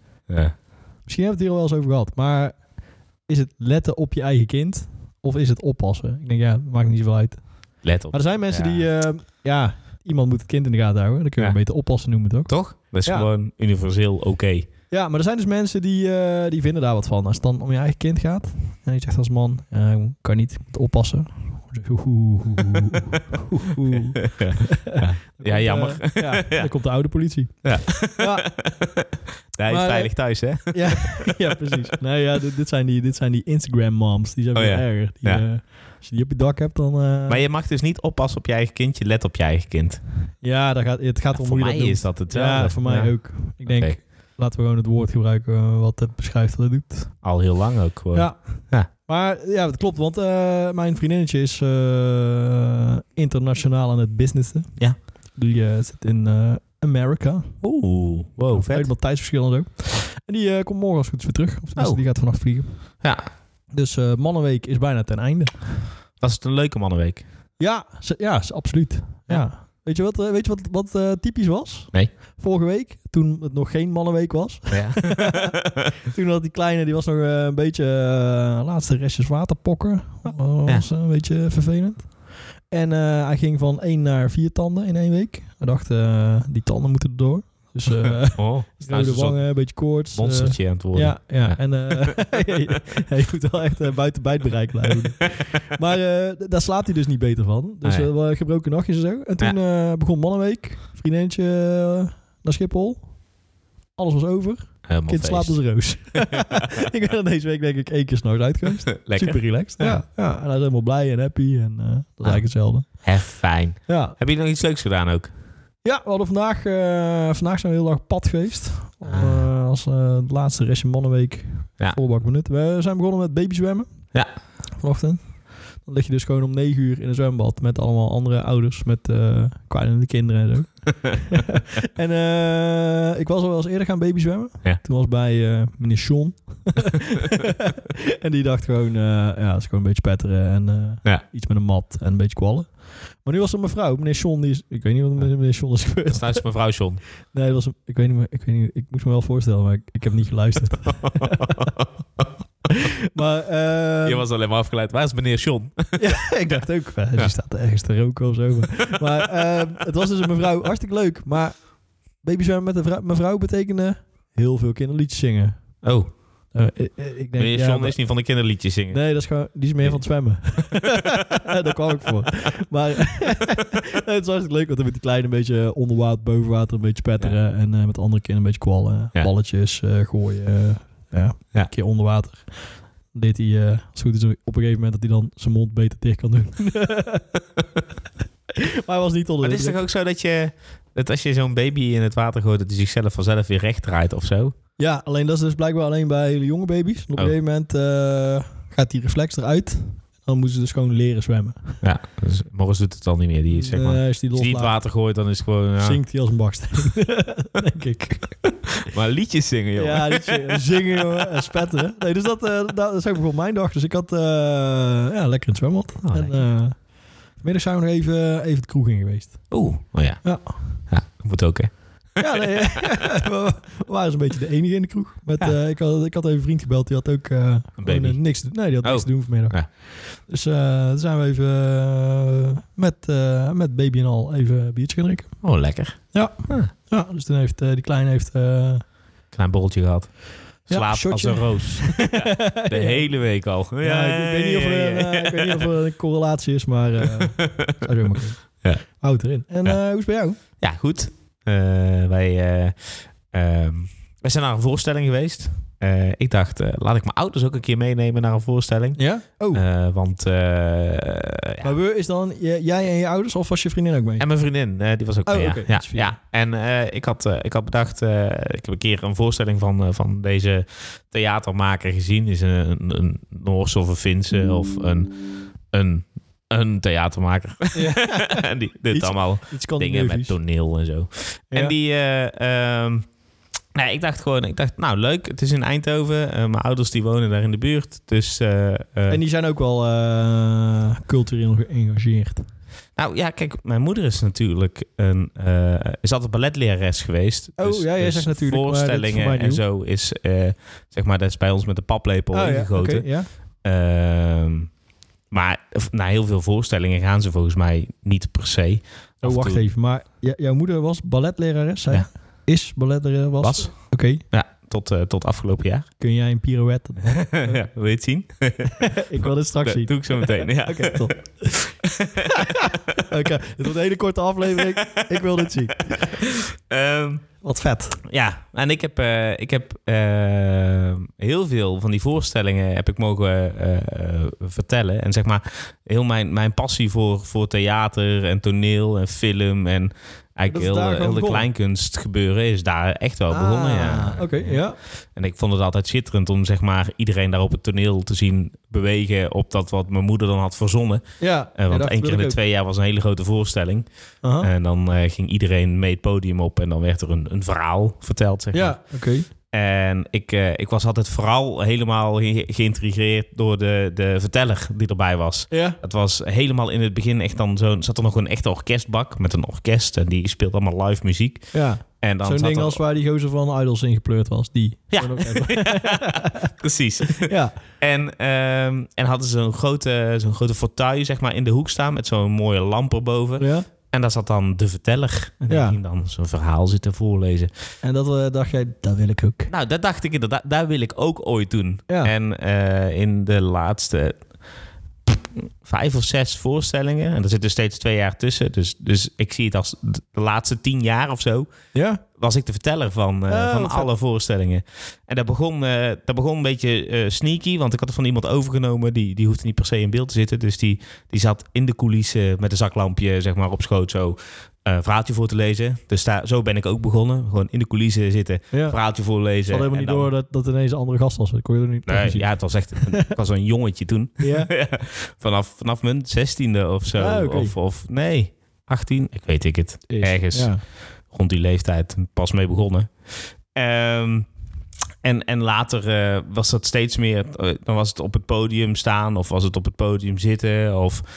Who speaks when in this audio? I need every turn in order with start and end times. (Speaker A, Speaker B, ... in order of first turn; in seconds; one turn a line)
Speaker A: 0.3-0.6
Speaker B: 1.1-2.7
Speaker B: 3.2-12.5
Speaker A: 7.8-8.9
Speaker A: 11.4-11.6
Speaker A: 12.5-14.7
Speaker B: 13.0-13.3
Speaker B: 14.9-28.5
Speaker A: 23.9-26.7
Speaker A: 27.6-31.3
Speaker B: 29.7-37.4
Speaker A: 34.5-35.4
Speaker A: 37.3-40.0
Speaker B: 40.4-47.2
Speaker A: 41.3-44.0
Speaker A: 47.2-48.9
Speaker B: 48.1-54.7
Speaker B: 55.4-57.6
Speaker A: 57.6-58.9
Speaker B: 58.5-63.0
Speaker A: 61.8-62.0
Speaker B: 63.7-65.9
Speaker A: 66.2-67.2
Speaker B: 67.6-103.1
Speaker A: 74.7-75.7
Speaker A: 87.9-92.2
Speaker A: 97.8-98.1
Speaker B: 104.0-113.0
Speaker A: 104.8-105.6
Speaker A: 108.9-110.0
Speaker A: 112.2-115.3
Speaker B: 113.9-114.2
Speaker B: 115.8-123.9
Speaker A: 119.1-119.5
Speaker B: 124.8-146.5
Speaker A: 146.1-147.0
Speaker B: 147.3-151.7
Speaker A: 151.2-152.3
Speaker B: 152.7-154.3
Speaker A: 154.1-156.3
Speaker B: 156.0-165.7
Speaker A: 165.8-166.1
Speaker B: 166.5-168.0
Speaker A: 167.4-169.0
Speaker B: 168.9-187.4
Speaker B: 188.6-189.8
Speaker A: 189.4-194.5
Speaker B: 194.8-201.8
Speaker A: 201.8-206.0
Speaker B: 203.5-204.8
Speaker B: 205.8-208.9
Speaker A: 208.9-211.2
Speaker B: 209.8-216.8
Speaker A: 216.0-216.4
Speaker B: 217.4-219.5
Speaker A: 219.5-221.7
Speaker B: 220.2-220.8
Speaker B: 222.2-235.4
Speaker A: 227.8-229.7
Speaker A: 235.4-236.7
Speaker B: 236.1-238.8
Speaker A: 239.3-245.7
Speaker B: 240.7-243.1
Speaker B: 243.8-250.4
Speaker A: 247.2-247.8
Speaker A: 250.6-259.0
Speaker B: 258.9-259.6
Speaker A: 259.5-261.7
Speaker B: 261.6-264.2
Speaker A: 264.2-283.1
Speaker B: 265.2-266.1
Speaker B: 277.7-280.3
Speaker A: 283.8-289.2
Speaker B: 289.1-292.5
Speaker A: 292.9-303.1
Speaker B: 297.6-299.6
Speaker B: 302.3-303.3
Speaker A: 303.6-304.7
Speaker A: 305.3-309.6
Speaker B: 309.2-314.2
Speaker A: 313.4-313.7
Speaker A: 314.3-315.9
Speaker B: 316.0-317.6
Speaker A: 317.1-321.1
Speaker B: 318.7-321.7
Speaker A: 321.8-323.0
Speaker B: 322.2-326.2
Speaker A: 324.6-327.2
Speaker B: 327.4-328.0
Speaker A: 328.0-344.6
Speaker B: 340.5-341.5
Speaker B: 343.3-344.8
Speaker A: 345.1-351.0
Speaker B: 351.2-352.4
Speaker A: 351.6-353.8
Speaker B: 354.2-354.5
Speaker A: 354.4-358.8
Speaker B: 358.5-359.2
Speaker A: 359.5-372.8
Speaker B: 365.5-365.8
Speaker B: 371.5-376.5
Speaker A: 374.9-387.5
Speaker B: 377.2-377.6
Speaker B: 383.4-383.7
Speaker B: 385.4-385.8
Speaker B: 387.8-389.5
Speaker A: 389.5-394.3
Speaker A: 395.1-401.5
Speaker B: 401.7-402.0
Speaker A: 402.1-420.1
Speaker B: 403.3-403.9
Speaker B: 418.5-418.8
Speaker B: 419.3-423.1
Speaker A: 421.9-434.3
Speaker B: 424.2-424.5
Speaker B: 426.9-427.5
Speaker B: 429.9-430.6
Speaker A: 435.0-441.0